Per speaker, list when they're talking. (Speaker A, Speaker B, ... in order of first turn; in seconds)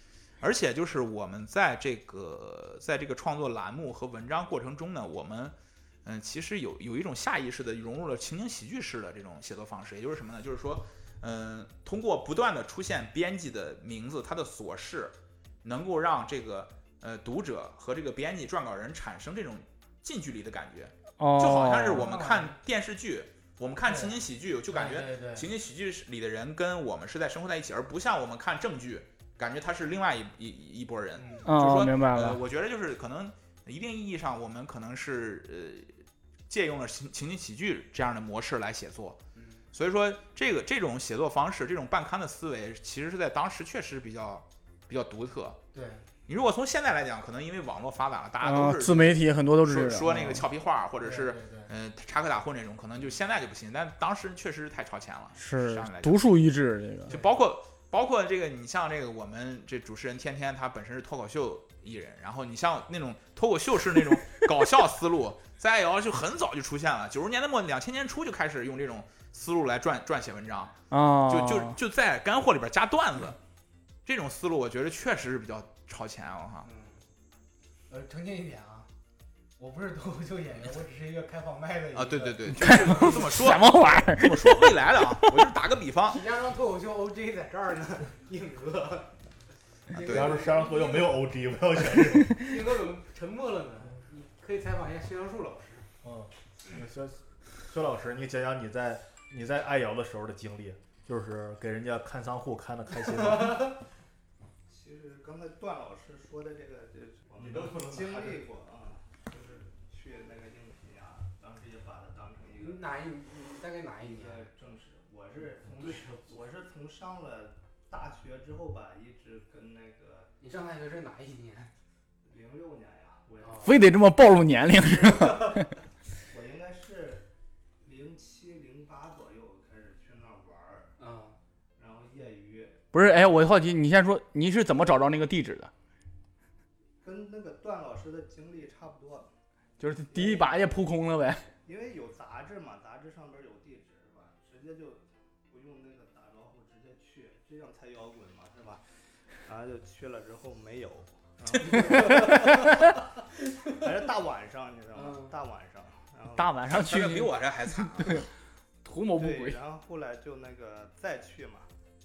Speaker A: 0.4-39.2, 39.7-45.6, 46.3-56.3, 57.1-73.4, 74.0-76.7, 81.9-86.2, 90.0-90.4, 156.7-158.3
Speaker B: 21.2-22.0, 31.4-32.4, 48.4-50.4, 55.4-57.1, 70.9-71.8, 82.5-85.4, 123.6-125.7, 132.9-135.7, 139.8-141.5, 151.8-152.7, 156.3-158.3, 158.8-159.6
Speaker C: 21.9-22.5, 23.8-24.1, 24.7-25.5, 31.2-31.5, 39.4-39.6, 45.7-46.0, 50.0-50.5, 51.0-51.7, 76.6-77.0, 77.9-78.9, 79.6-83.2, 86.1-89.1, 89.9-91.1, 92.3-95.9, 103.4-103.7, 112.6-114.5, 120.4-121.7, 123.4-123.8, 131.0-131.3, 154.9-155.3
Speaker D: 90.0-92.4, 96.0-103.7, 107.3-108.4
Speaker E: 104.7-112.8, 114.0-120.3, 122.2-123.8, 126.3-127.2, 127.8-130.9, 131.8-132.9, 137.0-139.3, 140.1-140.8, 141.6-148.8, 149.4-156.6, 159.2-161.7